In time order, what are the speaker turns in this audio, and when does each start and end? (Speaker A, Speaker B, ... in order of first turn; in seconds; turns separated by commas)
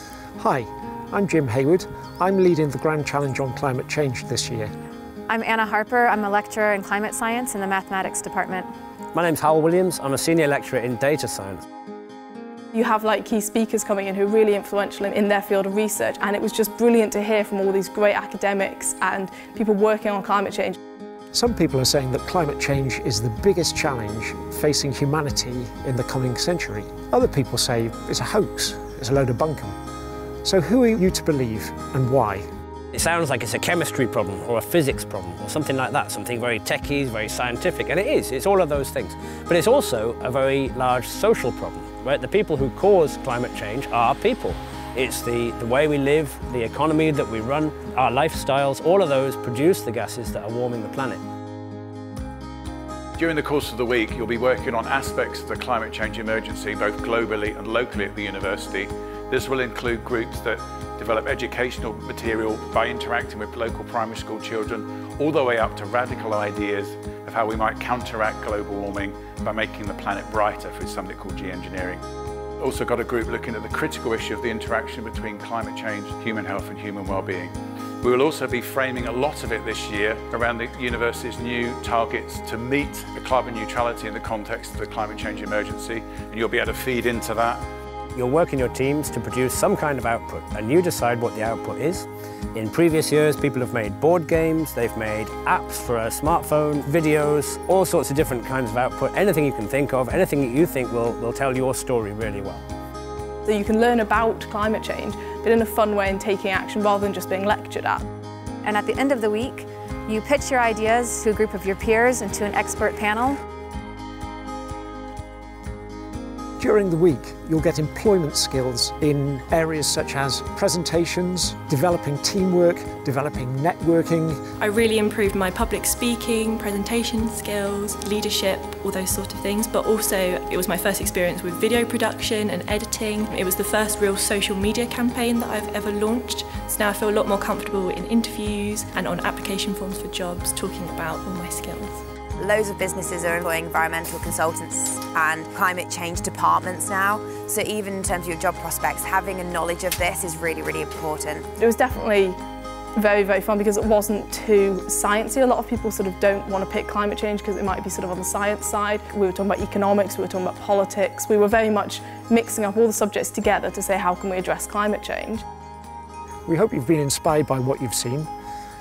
Speaker A: 0.4-4.7, Speaker B: 5.3-8.7, Speaker C: 9.2-11.6, Speaker D: 12.7-20.8, Speaker A: 21.3-29.8, Speaker A: 30.4-32.4, Speaker C: 32.9-51.2, Speaker E: 53.2-72.0, Speaker E: 72.6-87.6, Speaker C: 88.2-92.1, Speaker C: 92.8-102.6, Speaker D: 103.5-108.1, Speaker B: 108.6-113.4, Speaker A: 116.6-124.4, Speaker F: 124.6-142.0, Speaker G: 142.4-151.5, Speaker D: 151.6-152.4, Speaker D: 152.9-165.4, Speaker A: 166.5-168.3